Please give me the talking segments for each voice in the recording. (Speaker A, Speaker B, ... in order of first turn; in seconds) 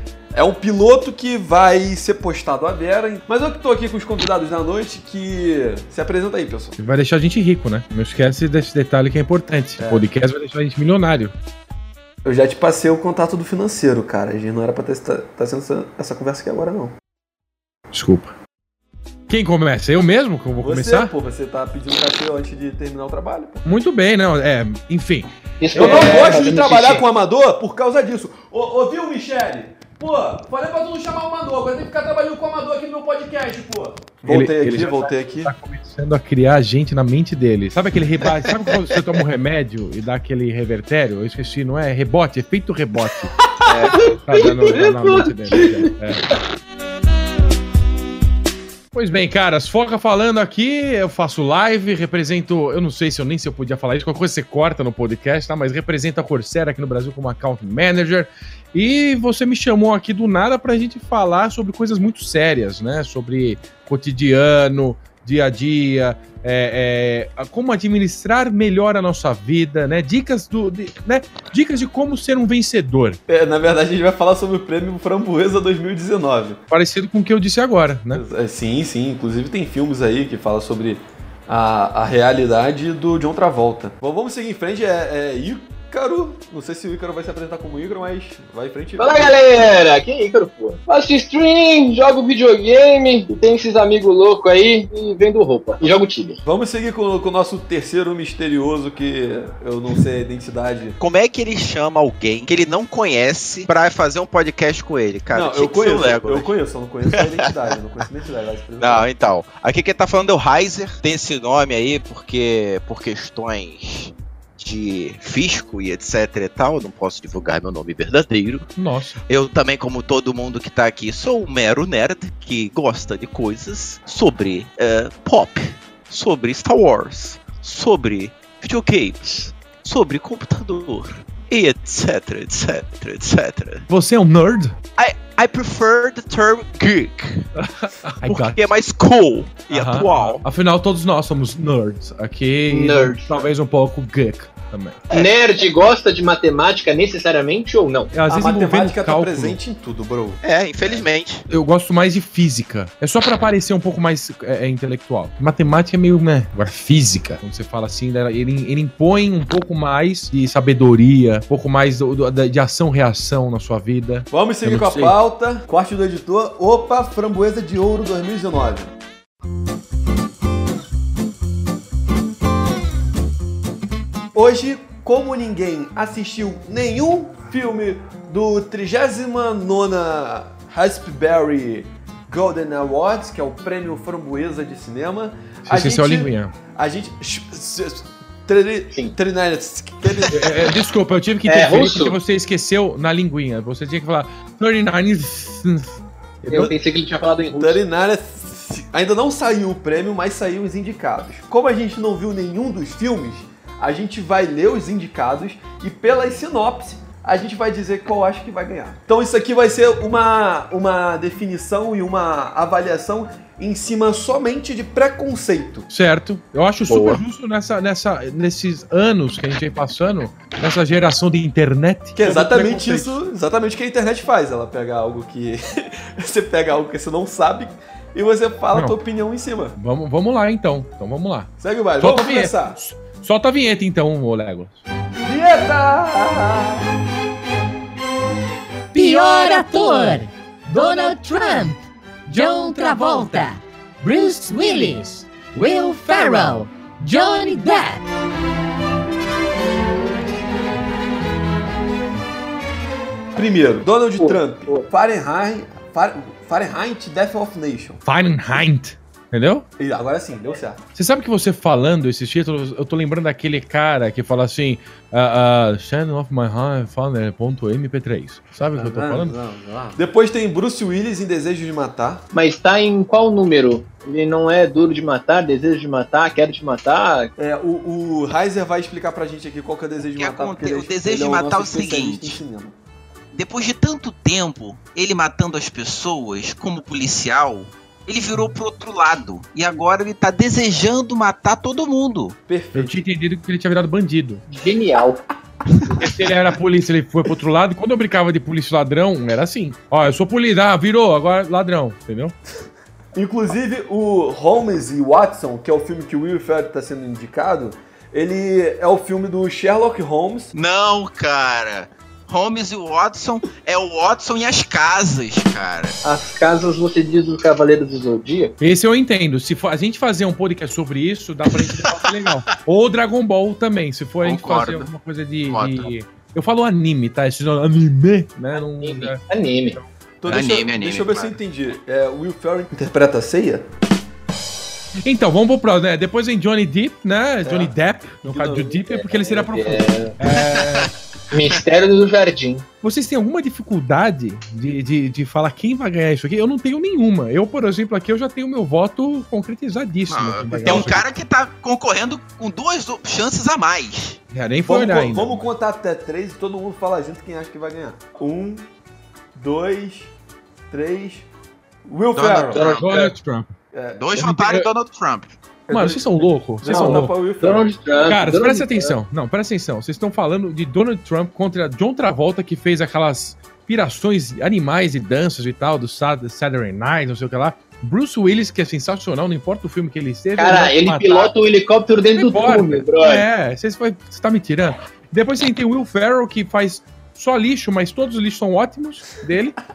Speaker A: 0.3-6.8, 9.8-10.1, 12.2-17.0, 20.6-23.7, 25.7-35.5, 73.3-76.6, 78.1-89.5, 96.5-101.0, 105.3-109.1, 148.3-151.0, 164.3-168.9, 174.3-190.7, 197.6-215.9, 222.2-229.8, 231.6-232.8, 235.2-236.9, 253.3-258.0, 259.8-260.8, 268.8-272.2, 277.4-282.8, 292.5-293.0, 303.1-310.5, 330.2-333.6, 337.4-338.9, 350.6-351.0, 354.6-358.7, 359.4-360.1, 360.7-361.3, 361.9-363.1, 363.7-364.1, 365.7-367.7
Speaker B: 6.8-11.3, 17.9-18.4, 19.3-21.1, 23.6-26.4, 34.2-43.3, 44.2-46.3, 48.9-73.2, 76.7-78.2, 118.8-119.2, 133.9-134.8, 137.6-138.6, 139.7-145.0, 148.1-149.6, 151.5-165.2, 185.7-186.5, 190.3-196.8, 215.9-223.2, 229.8-234.8, 258.1-259.7, 260.9-269.4, 292.8-294.4, 296.0-302.4, 318.6-329.2, 335.0-340.9, 342.8-351.0, 354.3-355.5, 362.7-363.5, 364.1-364.7, 365.7-367.1, 368.0-381.3, 382.1-389.6
Speaker C: 25.6-27.0, 43.9-45.9, 89.0-96.4, 142.7-143.5, 145.1-148.1, 191.5-192.2, 196.5-197.8, 254.2-254.9, 272.3-277.3, 294.5-295.2, 316.0-318.5, 328.8-329.8, 338.9-340.1, 341.3-342.7, 366.7-368.9, 380.4-383.2
Speaker D: 43.7-44.0, 101.0-106.5, 107.1-107.5, 108.8-118.7, 119.3-133.9, 135.0-137.5, 138.2-140.4, 150.4-151.5, 216.9-217.2, 280.1-282.4, 283.3-292.4, 310.5-316.0, 321.6-322.3, 324.2-324.9, 325.5-325.9, 330.3-331.4, 340.3-341.6, 350.1-354.2, 362.1-362.9, 364.0-365.3
Speaker E: 238.9-248.0